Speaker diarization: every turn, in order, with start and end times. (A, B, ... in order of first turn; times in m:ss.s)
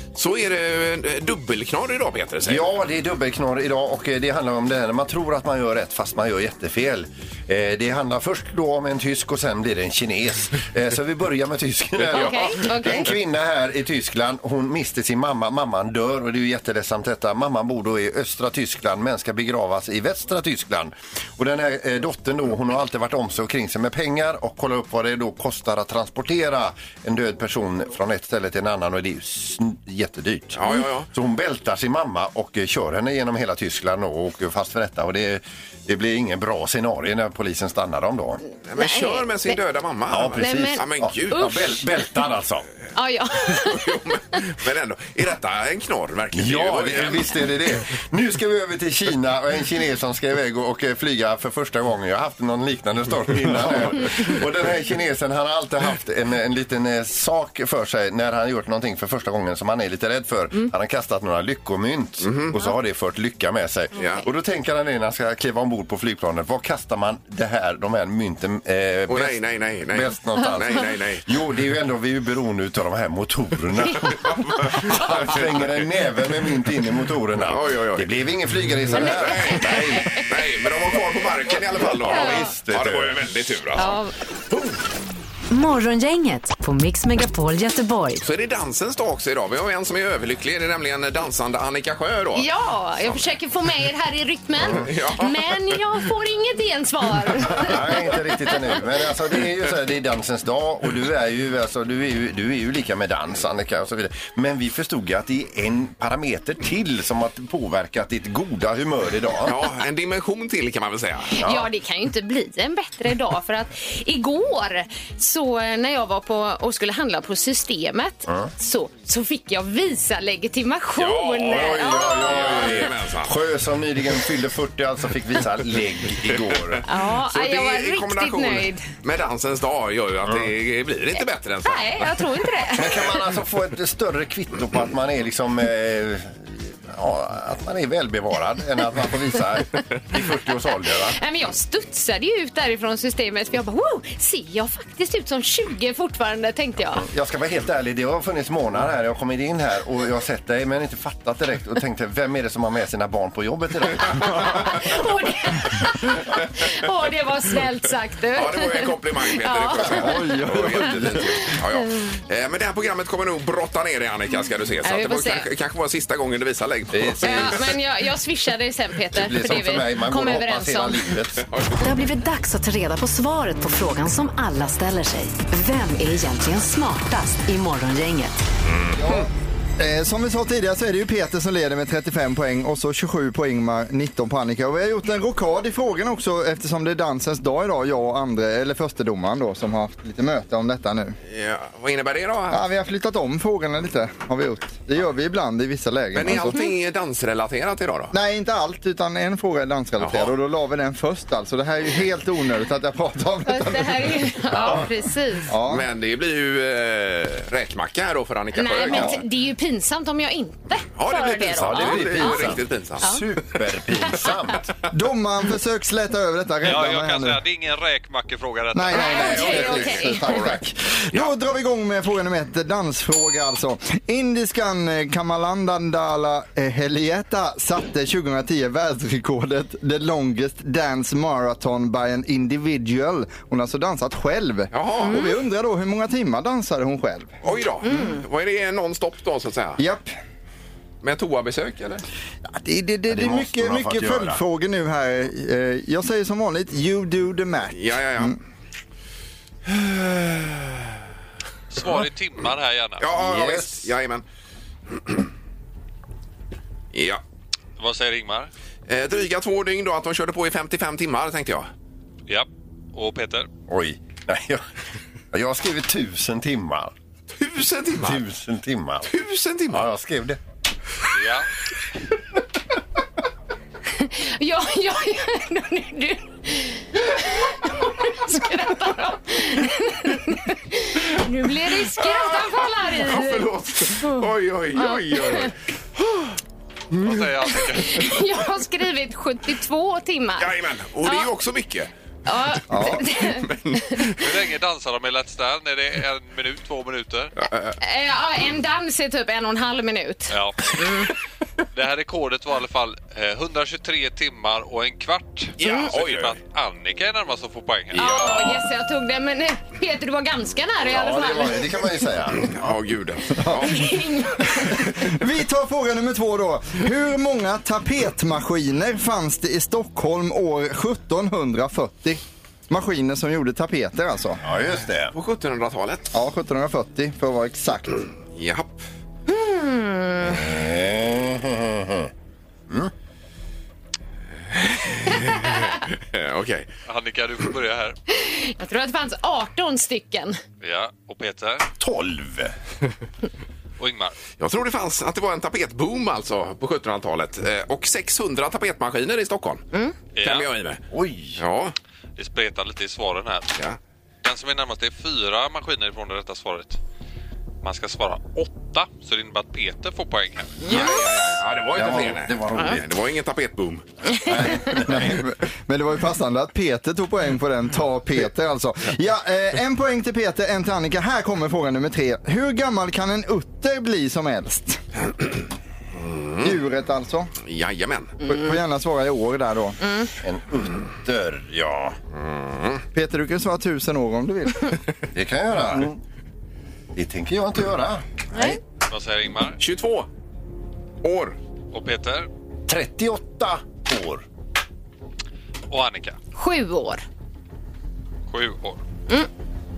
0:00.2-0:02.7 A
0:02.4-0:38.4 B
0:12.1-0:12.7 A
0:12.1-0:13.1 C
0:30.6-0:31.1 A
0:38.7-0:41.6 A
0:38.8-0:39.6 C
0:40.1-0:42.7 B
0:40.4-0:41.7 C
0:43.0-0:44.4 C
0:43.5-0:47.4 A
0:46.3-1:20.1 B
1:02.2-1:02.6 A
1:04.0-1:04.2 A
1:09.1-1:11.3 A
1:14.2-1:15.8 A
1:17.4-1:18.1 A
1:18.9-1:24.8 A
1:19.0-1:20.2 C
1:21.9-1:23.3 B
1:22.1-1:22.5 C
1:23.8-1:24.1 C
1:25.5-1:28.2 D
1:28.2-1:32.5 A
1:32.4-1:38.6 C
1:34.6-1:34.9 B
1:34.8-1:35.8 A
1:37.5-1:49.6 B
1:49.5-1:51.3 A
1:51.3-2:02.8 C
1:51.4-1:51.7 B
2:01.0-2:03.3 A
2:01.5-2:06.8 B
2:06.8-2:12.4 A
2:06.9-2:08.9 C
2:10.2-2:10.5 B
2:11.6-2:13.2 C
2:12.8-2:21.2 B
2:21.2-2:27.1 C
2:27.0-2:34.7 B
2:34.5-2:40.1 C
2:38.3-2:47.7 A
2:39.9-2:41.2 E
2:41.5-2:42.1 C
2:44.8-2:45.5 C
2:46.9-2:47.6 B
2:47.2-2:51.0 C
2:49.1-2:51.5 B
2:51.4-2:51.9 A
2:51.8-2:58.4 D
2:58.6-2:59.3 A
2:59.0-3:11.2 E
3:11.3-3:12.6 A
3:12.5-3:16.6 E
3:16.1-3:18.1 A
3:18.1-3:24.8 E
3:20.0-3:20.3 A
3:23.5-3:25.5 C
3:24.5-3:24.9 B
3:25.5-3:25.9 E
3:25.7-3:29.2 A
3:28.6-3:33.2 C
3:28.9-3:29.2 E
3:31.0-3:33.1 A
3:31.5-3:34.7 B
3:34.1-3:34.3 C
3:34.9-3:37.4 E
3:36.6-3:39.7 F
3:38.7-3:57.3 E
3:38.9-3:40.5 C
3:39.1-3:40.5 A
3:54.7-3:55.4 A
3:55.0-3:55.3 C
3:57.4-3:59.8 A
3:57.8-3:58.2 C
3:59.8-4:00.1 E
4:01.0-4:02.0 A
4:02.5-4:08.4 E
4:03.1-4:04.4 B
4:07.7-4:08.4 A
4:09.7-4:10.9 A
4:11.7-4:13.0 F
4:13.0-4:14.2 A
4:13.2-4:13.9 B
4:14.9-4:15.2 A
4:16.9-4:17.2 A
4:17.8-4:18.5 F
4:18.9-4:21.7 A
4:22.3-4:23.5 F
4:23.7-4:24.6 B
4:25.3-4:26.9 B
4:27.4-4:28.2 A
4:28.0-4:29.1 B
4:29.1-4:29.9 A
4:29.7-4:30.4 B
4:31.2-4:31.5 F
4:33.9-4:45.5 C
4:41.8-4:46.2 A
4:47.0-4:48.2 F
4:47.5-4:50.5 C
4:50.4-4:51.9 A
4:51.0-4:51.3 C
4:52.3-4:54.1 C
4:52.7-4:53.1 E
4:53.4-4:54.0 A
4:54.2-4:57.3 F
4:57.4-4:57.8 A
4:57.8-5:01.1 C
5:00.3-5:01.1 F
5:01.7-5:08.6 F
5:05.6-5:06.4 A
5:05.6-5:05.9 C
5:08.0-5:08.5 A
5:08.0-5:11.9 C
5:10.8-5:12.6 B
5:12.5-5:13.9 A
5:13.4-5:13.9 E
5:13.5-5:14.8 C
5:14.5-5:24.4 E
5:24.4-5:25.1 B
5:25.1-5:26.2 A
5:26.1-5:28.1 E
5:28.3-5:28.8 A
5:29.3-5:30.4 C
5:30.2-5:32.1 B
5:34.5-5:36.7 A
5:36.9-5:38.0 F
5:38.1-5:40.4 C
5:40.6-5:41.6 F
5:41.8-5:42.5 B
5:43.8-5:44.2 F
5:44.4-5:49.7 A
5:50.2-5:50.5 F
5:50.2-5:50.8 A
5:50.9-5:51.4 B
5:51.4-5:51.8 A
5:52.2-5:53.5 F
5:54.2-5:56.8 F
5:57.6-6:00.9 F
6:00.6-6:01.0 C
6:00.7-6:03.8 A
6:01.7-6:02.9 B
6:04.2-6:05.2 B
6:04.2-6:04.7 C
6:04.8-6:14.8 E
6:16.0-6:16.6 A
6:16.4-6:17.3 E
6:17.4-6:18.2 A
6:18.2-6:19.8 E
6:19.8-6:20.1 C
6:20.2-6:22.0 B
6:22.1-6:22.8 A
6:22.9-6:24.8 E
6:25.1-6:25.9 B
6:26.9-6:28.6 B
6:28.9-6:29.6 F
6:29.6-6:30.1 A
6:31.0-6:31.4 A
6:31.7-6:32.3 F
6:32.7-6:34.2 B
6:35.7-6:36.2 F
6:36.4-6:37.0 C
6:38.3-6:38.8 F